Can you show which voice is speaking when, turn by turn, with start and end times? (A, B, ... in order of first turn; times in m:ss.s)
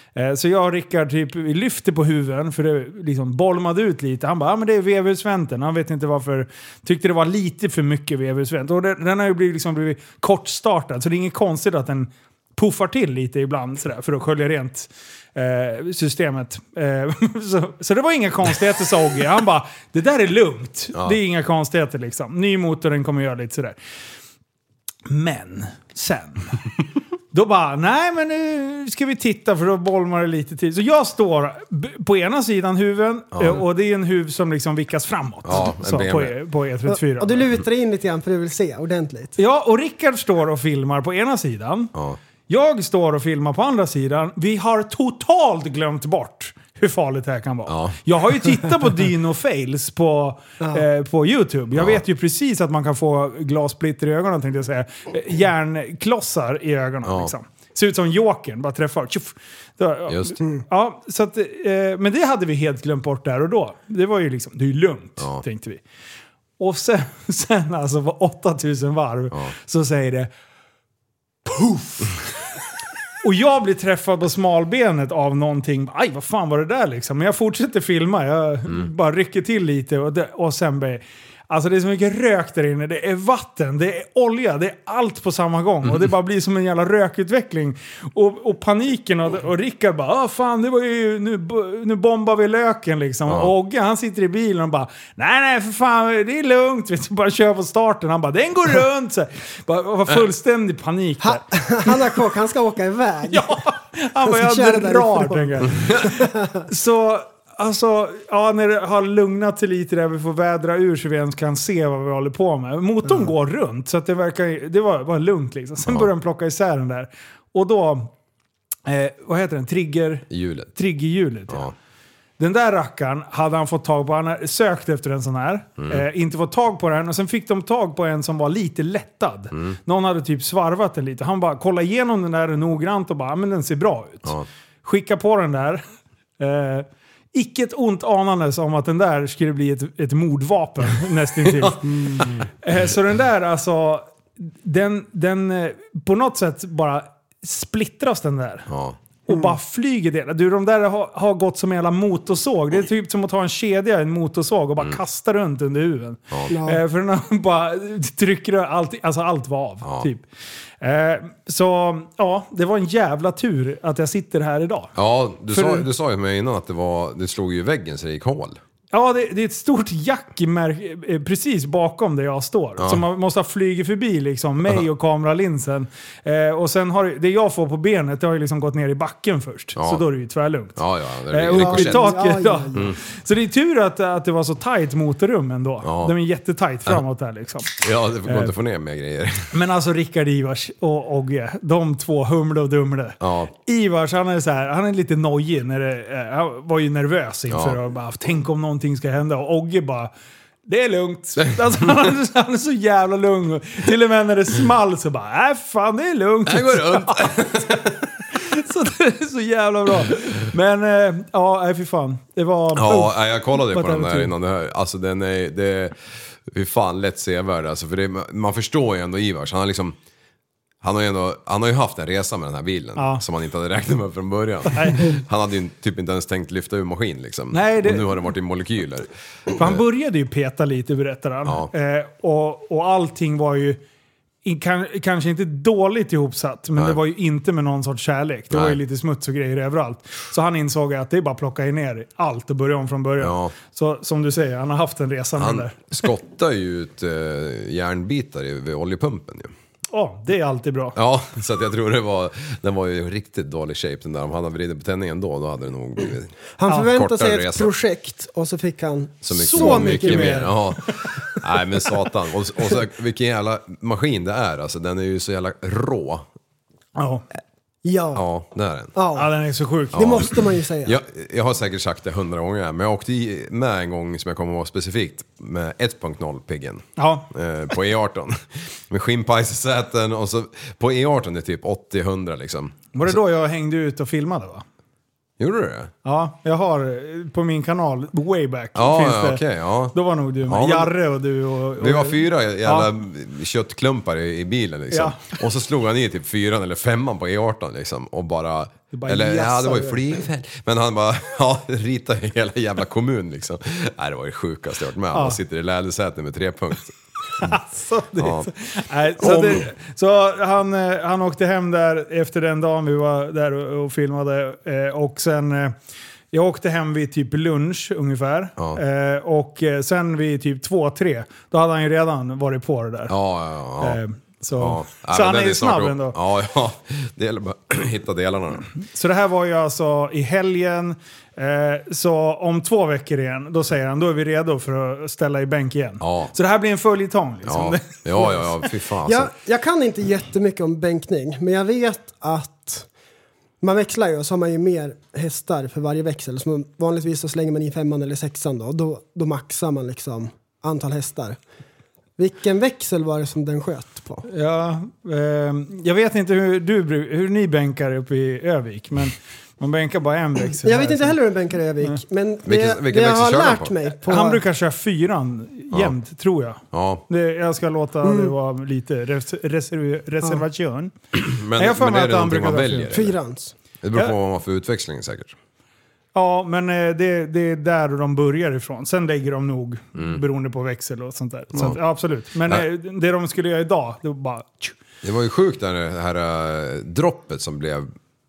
0:00.2-0:23.8 A
0:25.1-0:26.6 A
0:27.3-0:37.4 A
0:33.3-0:33.6 B
0:35.4-0:36.4 B
0:36.9-0:39.4 C
0:39.4-0:41.9 A
0:42.5-1:05.8 A
0:47.7-0:48.0 B
0:51.8-0:52.0 B
0:57.0-0:57.3 B
1:00.1-1:00.4 B
1:06.6-1:10.3 A
1:11.5-1:12.2 A
1:13.2-1:42.0 A
1:25.8-1:26.1 B
1:33.3-1:33.5 B
1:41.2-1:43.6 C
1:43.3-1:58.1 A
1:44.2-1:46.6 C
1:45.8-1:46.0 B
1:53.0-1:53.3 C
1:55.9-1:56.1 B
1:58.9-2:01.7 A
2:00.3-2:00.7 B
2:02.4-2:15.8 A
2:05.8-2:06.0 B
2:16.4-2:22.0 A
2:21.6-2:22.3 B
2:22.0-2:22.4 C
2:22.6-2:28.7 A
2:28.7-2:29.0 B
2:29.2-2:40.3 A
2:36.5-2:36.8 C
2:40.8-2:44.9 A
2:45.0-2:48.6 B
2:45.5-2:45.9 A
2:48.9-3:08.5 A
2:52.8-2:53.0 B
2:59.8-3:00.0 B
3:00.8-3:02.1 B
3:01.5-3:02.9 C
3:05.8-3:06.1 B
3:07.8-3:09.5 B
3:09.5-3:20.1 A
3:13.2-3:13.5 B
3:17.5-3:17.8 B
3:20.7-3:27.5 A
3:26.5-3:28.0 B
3:28.4-3:34.3 A
3:32.7-3:40.0 B
3:40.8-3:49.8 B
3:43.0-3:43.2 A
3:44.7-3:45.2 A
3:47.5-3:48.1 A
3:49.5-3:53.8 A
3:54.4-4:06.1 A
3:58.5-3:58.8 B
4:03.2-4:03.5 B
4:05.4-4:09.5 B
4:09.9-4:11.0 A
4:11.0-4:17.7 B
4:16.6-4:20.7 C
4:19.2-4:26.2 B
4:19.3-4:20.6 A
4:27.0-4:27.2 A
4:27.8-4:28.2 C
4:28.1-4:28.9 B
4:28.9-4:29.3 C
4:29.2-4:30.3 A
4:29.9-4:30.3 B
4:29.9-4:31.0 C
4:30.8-4:43.2 B
4:37.0-4:37.3 A
4:42.9-4:44.6 A
4:45.4-4:45.9 B
4:46.0-4:49.4 A
4:48.8-4:51.0 B
4:49.9-4:52.9 A
4:51.8-5:07.6 B
4:54.9-4:55.4 A
4:58.9-5:00.2 A
5:05.1-5:05.4 A
5:07.4-5:15.8 A
5:08.2-5:08.5 B
5:09.2-5:09.7 B
5:16.3-5:23.1 A
5:23.1-5:24.0 B
5:23.8-5:26.2 A
5:24.6-5:28.7 B
5:28.8-5:38.7 A
5:36.0-5:36.3 B
5:37.4-5:39.3 B
5:39.1-5:42.9 C
5:43.6-5:51.4 C
5:52.2-5:54.2 C
5:54.3-6:01.2 A
6:00.6-6:04.4 C
6:02.4-6:03.7 B
6:04.1-6:10.9 A
6:06.7-6:07.0 B
6:08.0-6:08.3 C
6:11.1-6:13.2 B
6:11.6-6:13.0 A
6:12.9-6:13.5 C
6:13.8-6:15.4 B
6:16.1-6:24.8 A
6:21.5-6:21.8 B
6:25.0-6:27.9 B